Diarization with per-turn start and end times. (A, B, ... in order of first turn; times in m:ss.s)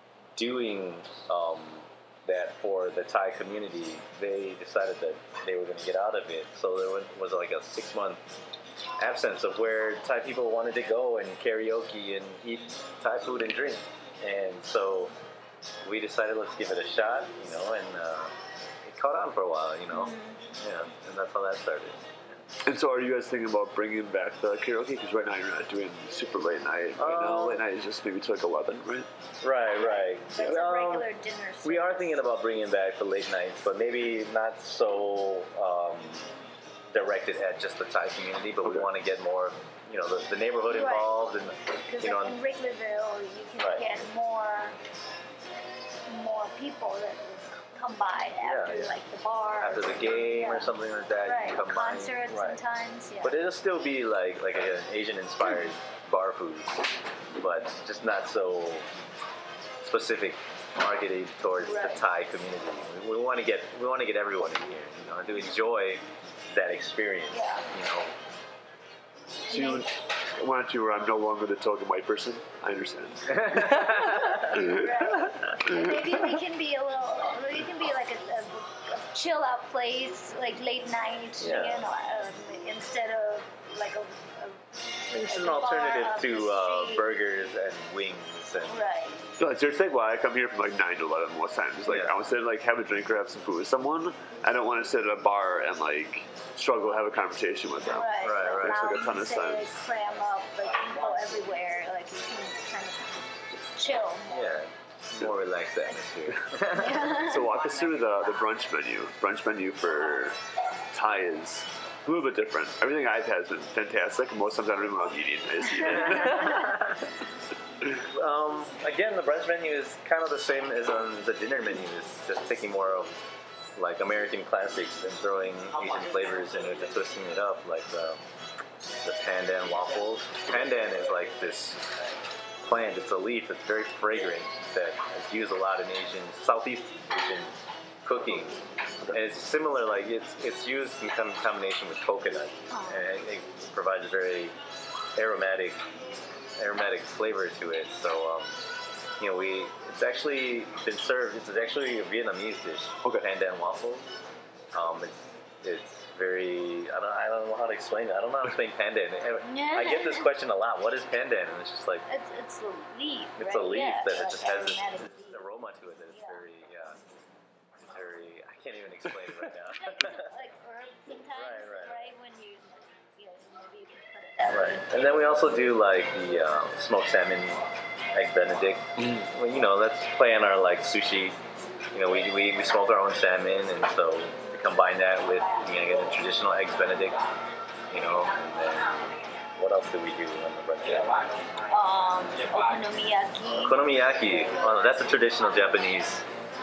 0:00.4-0:08.2 A
0:09.0-0:15.1 A
0:15.8-0:22.4 A
0:19.9-0:20.4 B
0:22.6-0:29.1 C
0:27.0-0:27.6 A
0:29.4-0:31.1 A
0:30.0-0:32.2 B
0:31.6-0:36.3 A
0:36.9-0:42.4 A
0:38.6-0:38.9 C
0:40.7-0:41.2 B
0:41.9-0:44.8 B
0:43.6-0:44.0 A
0:46.1-0:53.4 B
0:48.4-0:49.0 A
0:49.6-0:52.6 A
0:53.2-0:56.8 A
0:57.4-0:58.9 A
0:59.8-1:08.1 A
1:01.7-1:02.0 B
1:07.3-1:07.7 B
1:09.4-1:09.9 B
1:09.5-1:13.9 C
1:13.3-1:14.8 A
1:14.4-1:15.9 C
1:14.6-1:27.1 B
1:21.4-1:21.8 A
1:25.1-1:28.8 A
1:28.7-1:29.4 B
1:29.4-1:39.7 C
1:31.9-1:32.2 A
1:37.8-1:44.5 B
1:38.2-1:39.0 A
1:44.3-1:47.2 A
1:46.6-1:47.6 B
1:47.1-1:50.4 C
1:50.9-1:56.8 C
1:56.0-1:57.0 A
1:56.0-1:56.4 B
1:58.0-2:03.2 A
2:03.8-2:08.2 A
2:09.0-2:11.9 A
2:12.6-2:24.6 A
2:22.7-2:23.0 B
2:25.2-2:25.8 A
2:26.6-2:28.6 A
2:29.2-2:34.1 A
2:34.7-2:42.0 A
2:39.4-2:40.3 B
2:42.1-2:45.4 B
2:43.4-2:47.0 A
2:46.1-2:46.4 B
2:47.9-2:50.3 A
2:49.8-2:55.0 B
2:51.3-2:52.0 A
2:54.5-3:01.4 A
3:01.9-3:07.2 A
3:07.9-3:11.4 A
3:11.7-3:14.9 B
3:13.6-3:16.2 A